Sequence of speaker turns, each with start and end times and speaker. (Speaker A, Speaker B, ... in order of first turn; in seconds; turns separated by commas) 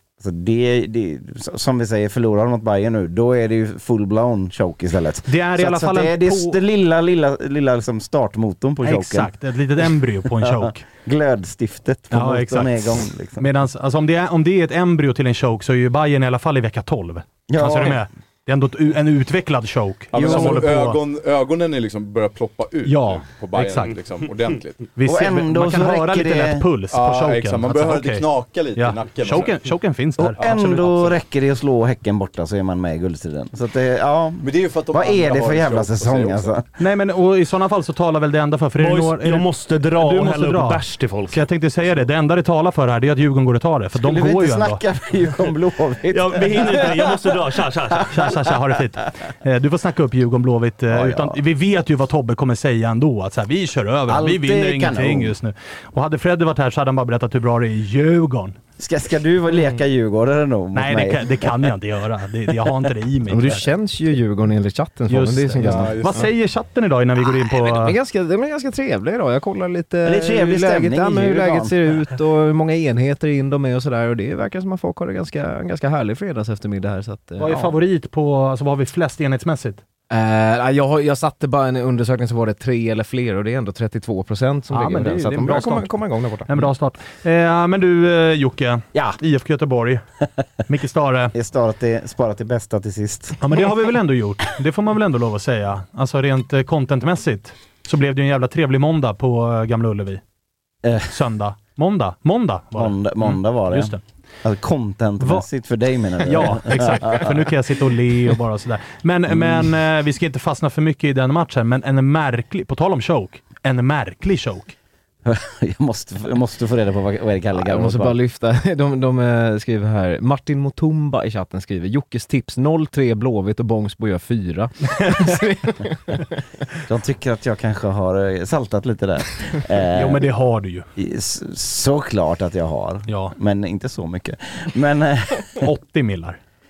Speaker A: 0.2-9.3, Speaker B: 5.3-6.6, Speaker B: 8.8-10.8, Speaker A: 10.2-13.5, Speaker B: 12.1-21.0, Speaker A: 17.5-18.0, Speaker C: 20.1-24.8, Speaker A: 20.1-20.7, Speaker B: 22.9-24.0, Speaker B: 24.9-31.1, Speaker A: 25.0-26.6, Speaker C: 26.9-29.6, Speaker A: 30.2-36.7, Speaker C: 34.4-36.5, Speaker B: 36.8-44.8, Speaker D: 38.8-41.4, Speaker A: 44.0-47.3, Speaker D: 46.1-48.1, Speaker A: 48.0-48.6, Speaker B: 48.1-58.5, Speaker A: 50.9-51.4, Speaker A: 54.1-55.3, Speaker A: 58.8-61.5, Speaker B: 60.7-63.7, Speaker E: 63.3-66.2, Speaker B: 65.1-67.9, Speaker C: 65.6-66.3, Speaker E: 67.5-77.7, Speaker A: 70.0-71.7, Speaker B: 77.4-79.8, Speaker E: 80.1-86.7, Speaker B: 84.7-85.9, Speaker B: 86.5-90.0, Speaker B: 90.7-91.3, Speaker A: 91.3-93.4, Speaker B: 93.4-100.2, Speaker A: 100.8-101.1, Speaker B: 101.1-104.0, Speaker A: 102.7-107.5, Speaker B: 105.2-105.5, Speaker B: 106.2-114.7, Speaker A: 109.3-109.7, Speaker A: 115.2-118.1, Speaker E: 117.6-126.2, Speaker A: 126.9-130.2, Speaker B: 129.9-130.9, Speaker A: 130.9-135.6, Speaker B: 133.1-133.3, Speaker B: 135.6-136.4